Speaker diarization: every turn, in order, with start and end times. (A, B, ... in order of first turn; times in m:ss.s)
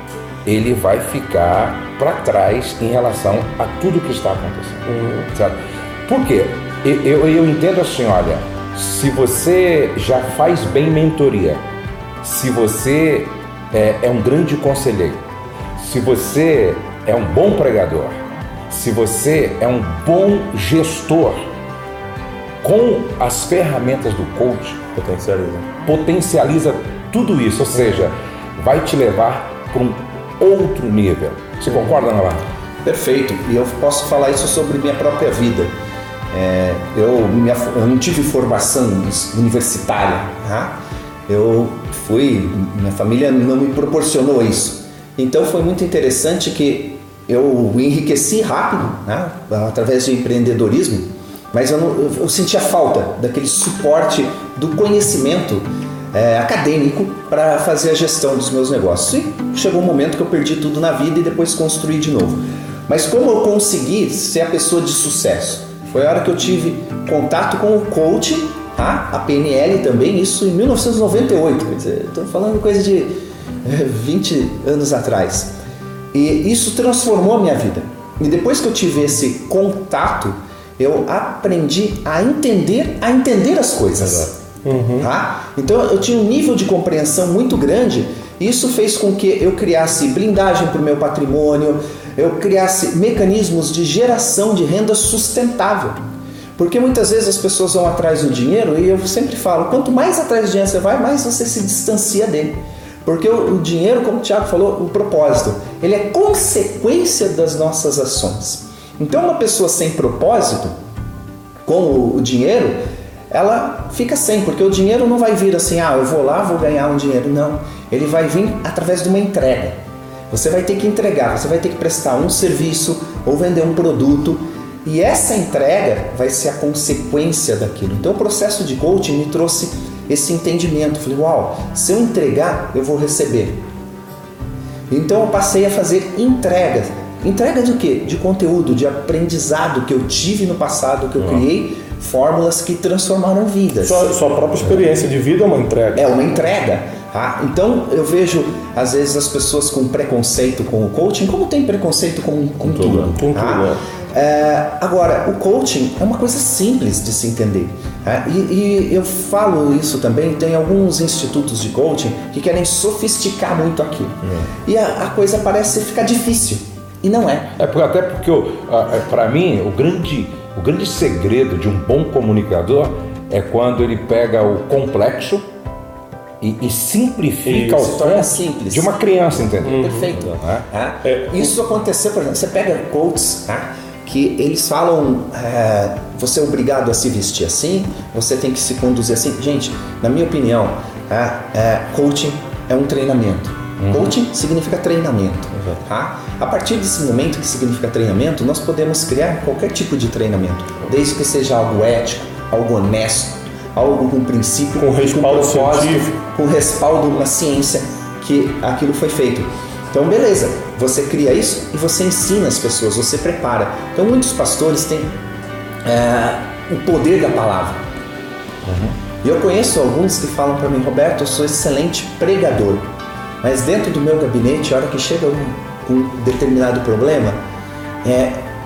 0:00.4-0:11.6 A
0:04.8-0:05.3 B
0:12.2-0:15.2 A
0:15.8-0:21.4 A
0:22.6-0:24.8 A
0:25.0-0:25.7 C
0:25.8-0:32.4 A
0:32.8-0:35.7 D
0:36.3-1:15.5 D
1:16.1-1:24.4 D
1:24.6-1:25.1 B
1:25.0-1:36.0 D
1:36.6-1:50.7 D
1:51.6-1:52.8 D
1:53.3-1:59.8 D
2:00.3-2:13.6 D
2:14.9-2:24.0 D
2:21.2-2:21.5 C
2:23.8-2:26.1 B
2:26.0-2:47.5 D
2:32.6-2:33.2 C
2:33.2-2:33.8 B
2:44.2-2:44.5 C
2:47.6-2:55.4 A
2:56.4-3:00.7 A
2:57.4-2:57.9 B
2:57.5-3:35.2 D
2:59.6-3:00.1 B
3:01.0-3:01.5 B
3:13.8-3:14.2 A
3:24.8-3:26.2 B
3:35.8-3:37.8 D
3:38.7-3:38.9 A
3:39.2-3:42.9 D
3:43.4-3:47.4 D
3:48.0-3:48.4 D